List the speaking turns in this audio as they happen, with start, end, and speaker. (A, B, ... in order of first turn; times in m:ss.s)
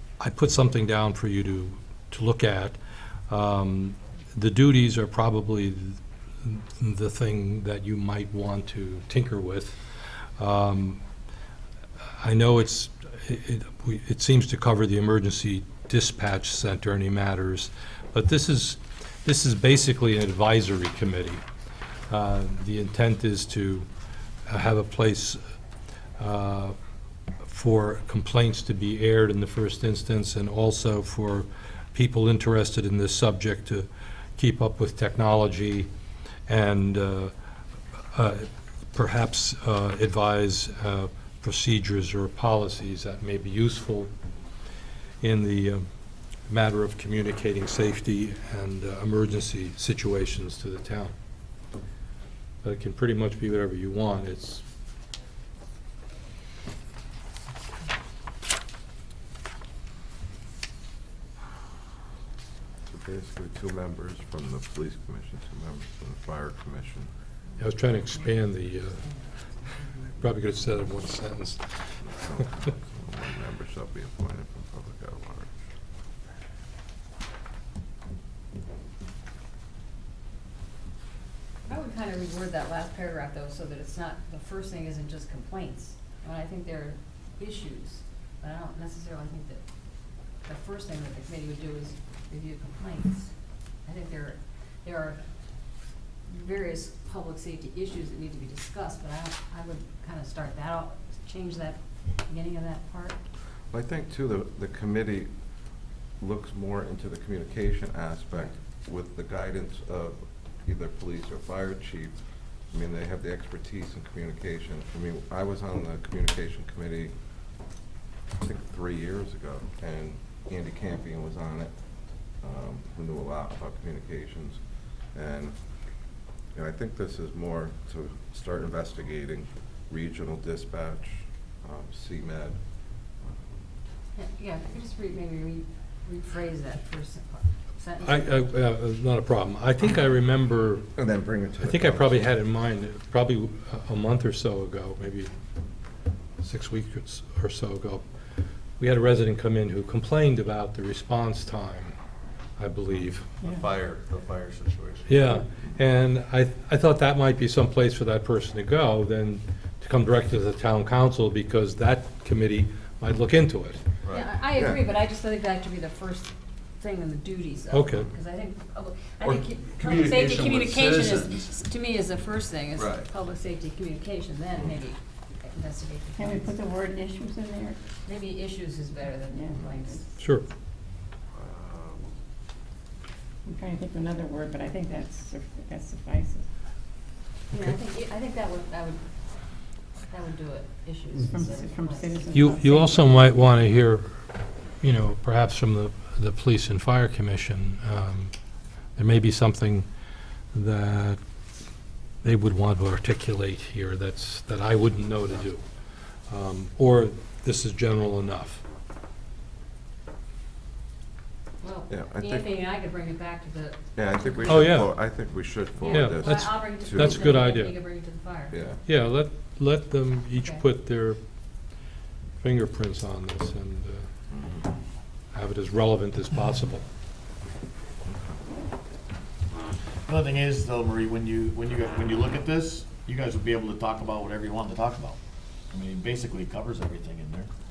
0:00.2-0:02.8 A
0:03.3-0:11.0 A
0:12.2-0:21.4 A
0:22.1-0:23.9 A
0:24.5-0:25.4 A
0:26.2-0:26.8 A
0:27.4-0:35.9 A
0:36.5-0:37.3 A
0:38.1-0:44.1 A
0:45.2-0:45.9 A
0:46.5-0:51.1 A
0:52.6-0:54.6 A
1:02.9-1:07.1 B
1:07.6-1:09.1 A
1:09.7-1:11.7 A
1:12.0-1:15.5 B
1:21.7-1:29.6 C
1:30.4-1:33.3 C
1:33.9-1:35.2 C
1:36.3-1:43.2 C
1:43.7-1:45.3 B
1:46.2-1:52.2 B
1:52.7-1:57.1 B
1:58.4-2:01.7 B
2:02.4-2:04.6 B
2:05.1-2:05.6 B
2:06.5-2:12.6 B
2:14.2-2:18.5 C
2:18.0-2:20.9 A
2:21.0-2:22.2 B
2:21.6-2:25.3 A
2:26.4-2:28.0 A
2:28.8-2:32.0 A
2:32.6-2:33.3 A
2:33.5-2:35.2 D
2:35.1-2:43.8 A
2:44.1-2:56.6 C
2:44.6-2:44.8 B
2:47.7-2:48.1 A
2:49.2-2:51.6 D
2:52.8-2:53.1 D
2:56.2-2:57.8 E
2:58.0-3:00.1 C
2:59.3-2:59.6 E
3:00.2-3:00.5 A
3:01.5-3:01.9 D
3:03.5-3:06.4 E
3:07.5-3:09.0 C
3:10.0-3:12.4 C
3:11.2-3:13.2 E
3:12.3-3:14.2 A
3:14.8-3:18.3 A
3:19.0-3:19.9 A
3:20.5-3:21.2 A
3:22.2-3:25.6 A
3:26.3-3:28.6 A
3:31.6-3:34.8 C
3:31.9-3:32.5 B
3:34.0-3:37.5 B
3:34.5-3:34.9 A
3:35.8-3:38.6 C
3:35.9-3:37.7 A
3:38.5-3:38.8 B
3:38.8-3:41.2 A
3:42.4-3:44.1 A
3:44.3-3:44.7 B
3:45.3-3:46.9 A
3:50.1-3:55.2 F
3:55.7-3:57.5 F